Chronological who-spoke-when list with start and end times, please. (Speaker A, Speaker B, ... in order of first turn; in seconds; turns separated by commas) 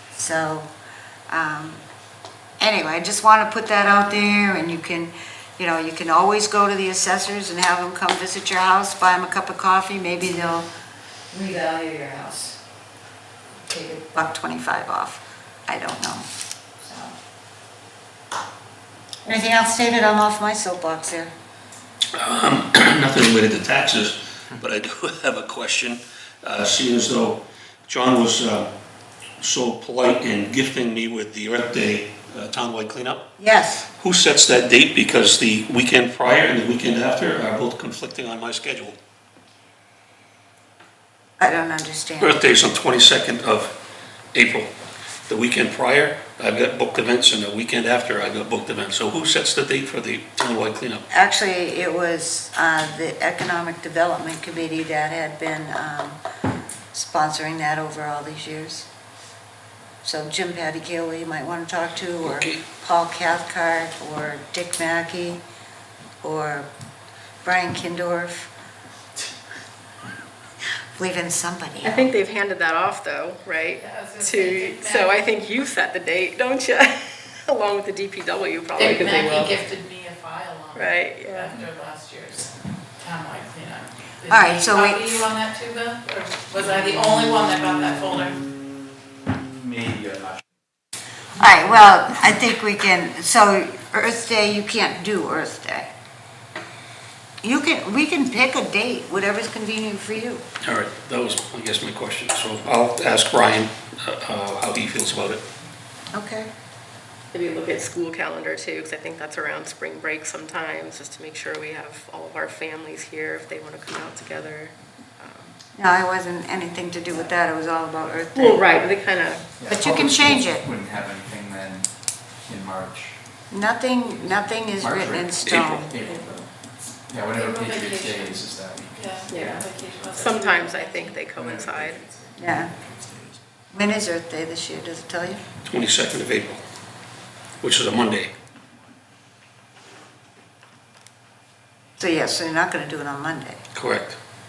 Speaker A: 0.1-0.7, Speaker A: 1.3-1.8, Speaker A: 2.6-10.7, Speaker A: 11.3-12.6, Speaker A: 13.6-16.2, Speaker A: 16.8-17.1, Speaker A: 19.2-21.3, Speaker B: 22.1-28.7, Speaker B: 29.4-33.3, Speaker A: 33.4-33.9, Speaker B: 34.0-39.0, Speaker A: 41.4-42.4, Speaker B: 42.2-43.7, Speaker B: 44.3-44.7, Speaker B: 45.3-51.1, Speaker A: 51.1-56.2, Speaker A: 56.9-58.9, Speaker A: 60.0-65.4, Speaker B: 62.2-62.6, Speaker A: 66.2-66.7, Speaker A: 67.4-68.5, Speaker A: 70.9-72.1, Speaker C: 71.8-79.6, Speaker D: 73.8-75.2, Speaker D: 78.8-88.4, Speaker C: 80.7-81.6, Speaker A: 84.3-85.2, Speaker E: 89.3-90.4, Speaker A: 91.4-95.9, Speaker A: 97.4-100.4, Speaker B: 100.6-105.5, Speaker A: 106.1-106.5, Speaker C: 107.3-115.6, Speaker A: 115.8-118.6, Speaker C: 118.3-119.5, Speaker E: 119.6-121.8, Speaker A: 119.7-120.7, Speaker E: 122.5-123.1, Speaker A: 123.5-126.0, Speaker E: 124.8-126.4, Speaker E: 127.1-129.2, Speaker D: 127.3-131.2, Speaker C: 129.3-132.0, Speaker E: 131.3-133.3, Speaker A: 132.4-132.7, Speaker A: 133.7-135.4, Speaker B: 135.6-136.6, Speaker B: 137.6-138.3, Speaker A: 142.0-143.6, Speaker B: 143.7-144.2